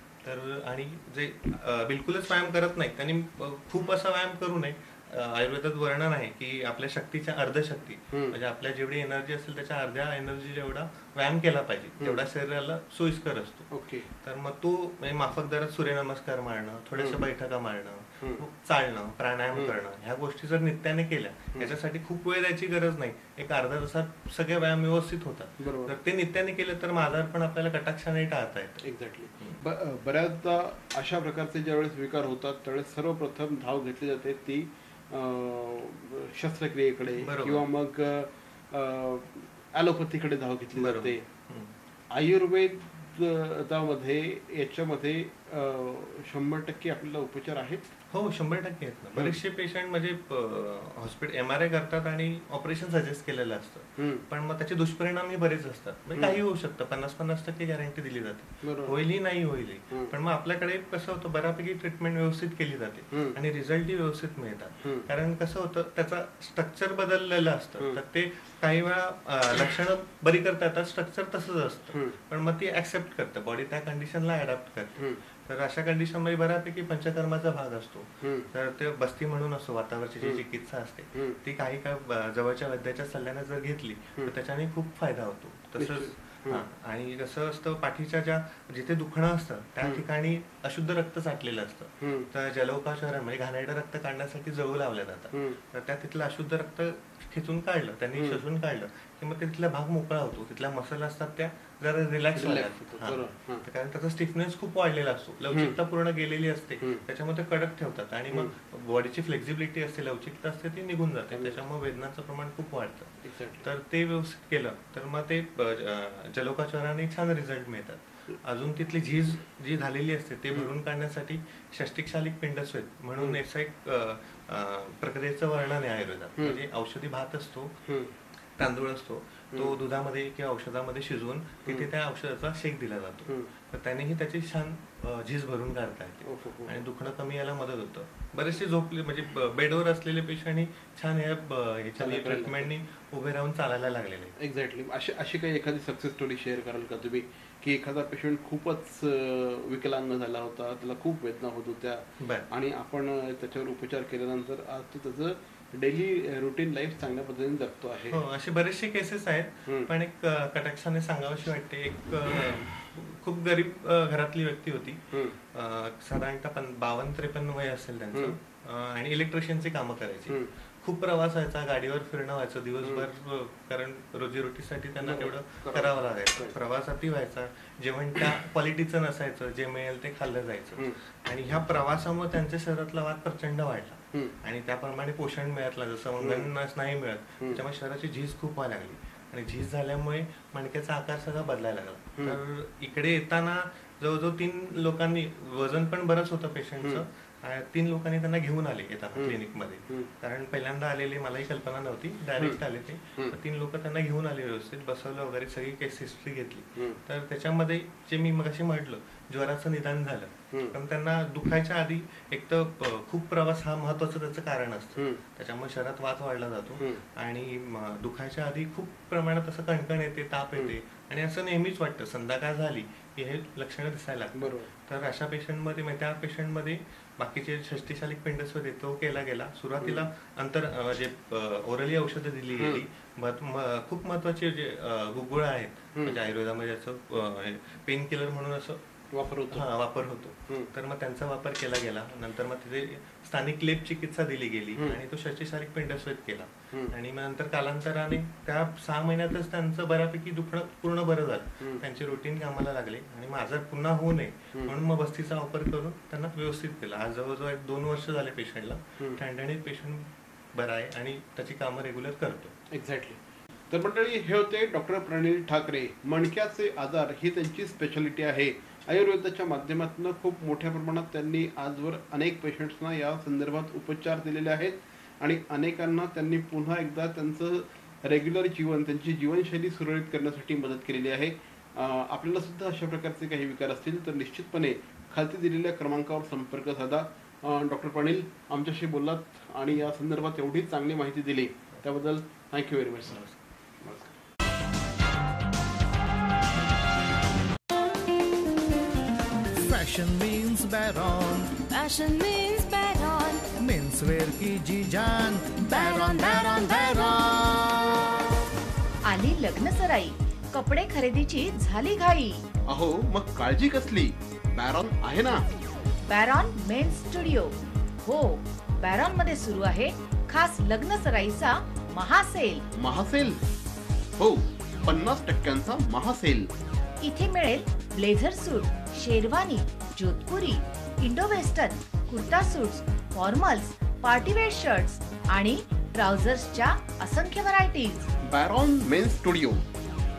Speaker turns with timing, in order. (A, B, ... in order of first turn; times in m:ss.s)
0:00.2-0:13.7 A
0:08.1-0:08.4 B
0:13.7-0:14.1 B
0:14.2-0:28.8 A
0:17.0-0:17.2 B
0:25.6-0:25.9 B
0:28.8-0:41.2 B
0:37.2-0:37.6 A
0:40.8-0:41.7 A
0:42.1-0:47.9 B
0:48.1-2:07.8 A
0:54.0-0:54.2 B
0:56.1-0:56.4 B
0:58.6-0:59.0 B
1:03.1-1:03.4 B
1:04.8-1:05.1 B
1:11.9-1:12.2 B
1:15.0-1:15.2 B
1:18.2-1:18.5 B
1:21.1-1:21.4 B
1:25.8-1:26.6 B
1:32.0-1:32.3 B
1:35.3-1:35.6 B
1:38.1-1:38.4 B
1:42.3-1:43.7 B
1:45.5-1:45.8 B
1:51.3-1:51.6 B
1:53.2-1:53.7 B
2:06.4-2:06.6 B
2:07.8-2:08.1 B
2:08.6-2:24.4 A
2:09.5-2:09.8 B
2:16.2-2:16.8 B
2:22.0-2:22.7 B
2:24.4-2:38.2 B
2:32.2-2:32.5 A
2:38.1-3:58.8 A
2:45.1-2:45.4 B
2:52.8-2:53.1 B
2:55.0-2:56.6 B
3:06.2-3:06.5 B
3:19.1-3:20.1 B
3:30.5-3:30.8 B
3:35.0-3:35.2 B
3:44.4-3:44.7 B
3:49.8-3:50.1 B
3:52.6-3:52.8 B
3:56.0-3:56.2 B
3:59.1-3:59.7 B
3:59.5-4:22.5 A
4:04.8-4:05.0 B
4:22.7-4:53.2 B
4:53.1-4:53.4 A
4:53.8-4:54.1 B
4:59.6-5:01.5 C
5:01.7-5:03.5 D
5:03.6-5:08.2 C
5:05.7-5:07.3 D
5:09.0-5:12.4 E
5:12.7-5:15.5 B
5:16.1-5:22.6 E
5:22.7-5:23.4 B
5:24.2-5:26.5 B
5:27.0-5:38.1 E
5:38.2-5:39.6 B